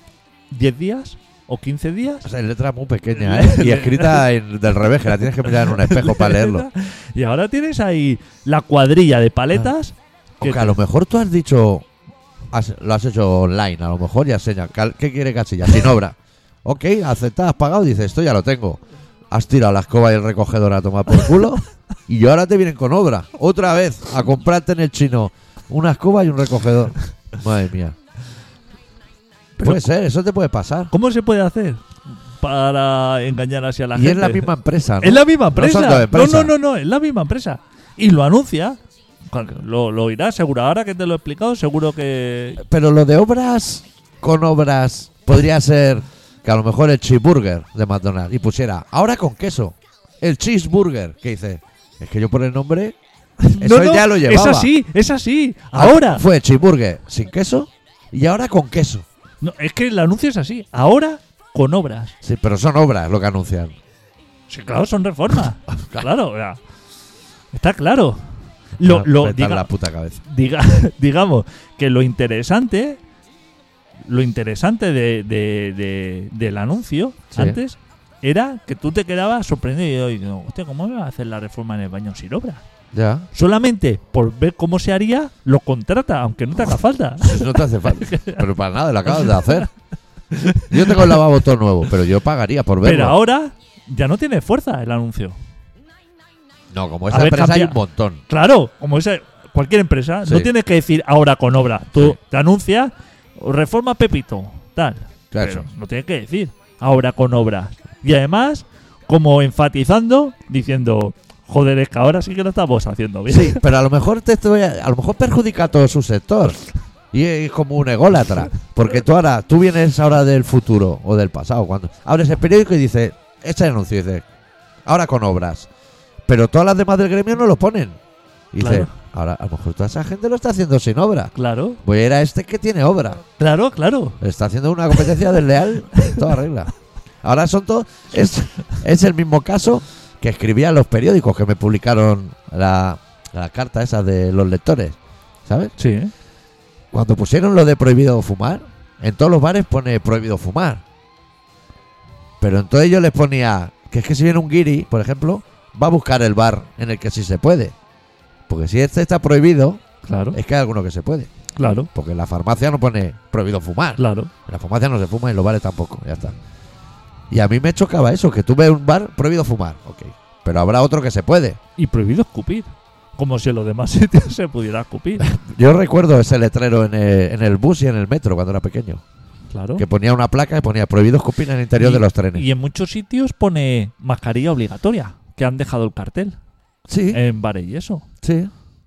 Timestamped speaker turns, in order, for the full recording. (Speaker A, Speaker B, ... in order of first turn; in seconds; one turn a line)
Speaker A: 0.5-2.2
Speaker B: 2.2-6.7
Speaker A: 3.1-4.2
Speaker A: 5.2-10.8
Speaker B: 10.4-11.8
Speaker B: 12.5-27.9
Speaker A: 29.6-29.8
Speaker B: 29.6-30.9
Speaker A: 30.9-31.9
Speaker A: 32.4-34.5
Speaker B: 33.9-36.5
Speaker A: 35.0-38.8
Speaker A: 39.3-42.6
Speaker B: 42.6-52.9
Speaker A: 53.4-56.2
Speaker B: 53.6-54.7
Speaker B: 55.7-59.0
Speaker A: 59.4-62.1
Speaker B: 62.2-63.7
Speaker A: 64.5-66.6
Speaker B: 65.7-66.1
Speaker A: 67.5-68.2
Speaker A: 68.8-69.7
Speaker B: 68.8-70.2
Speaker A: 70.2-73.0
Speaker A: 74.1-82.6
Speaker B: 77.3-77.6
Speaker B: 82.9-83.3
Speaker A: 83.3-88.5
Speaker B: 87.2-89.7
Speaker A: 89.1-89.7
Speaker A: 90.3-91.3
Speaker B: 90.7-93.2
Speaker A: 92.8-95.4
Speaker B: 96.7-98.2
Speaker A: 97.1-97.8
Speaker A: 98.3-113.6
Speaker B: 100.2-100.5
Speaker B: 105.3-105.7
Speaker B: 113.3-116.6
Speaker B: 117.1-124.2
Speaker B: 124.8-125.7
Speaker B: 126.3-128.0
Speaker B: 128.5-133.2
Speaker A: 128.6-128.9
Speaker A: 131.3-131.8
Speaker A: 133.4-134.2
Speaker B: 134.2-136.7
Speaker A: 136.0-136.3
Speaker B: 137.2-145.7
Speaker A: 145.8-146.1
Speaker B: 146.9-150.8
Speaker B: 152.4-157.7
Speaker B: 158.5-159.8
Speaker A: 160.0-160.4
Speaker B: 160.3-161.3
Speaker A: 161.6-161.9
Speaker B: 161.9-166.3
Speaker A: 164.0-164.3
Speaker B: 167.3-171.6
Speaker A: 171.8-175.3
Speaker B: 175.2-179.0
Speaker A: 179.5-179.8
Speaker B: 179.8-182.5
Speaker A: 181.8-186.4
Speaker B: 186.9-187.2
Speaker A: 187.1-188.0
Speaker B: 188.2-188.5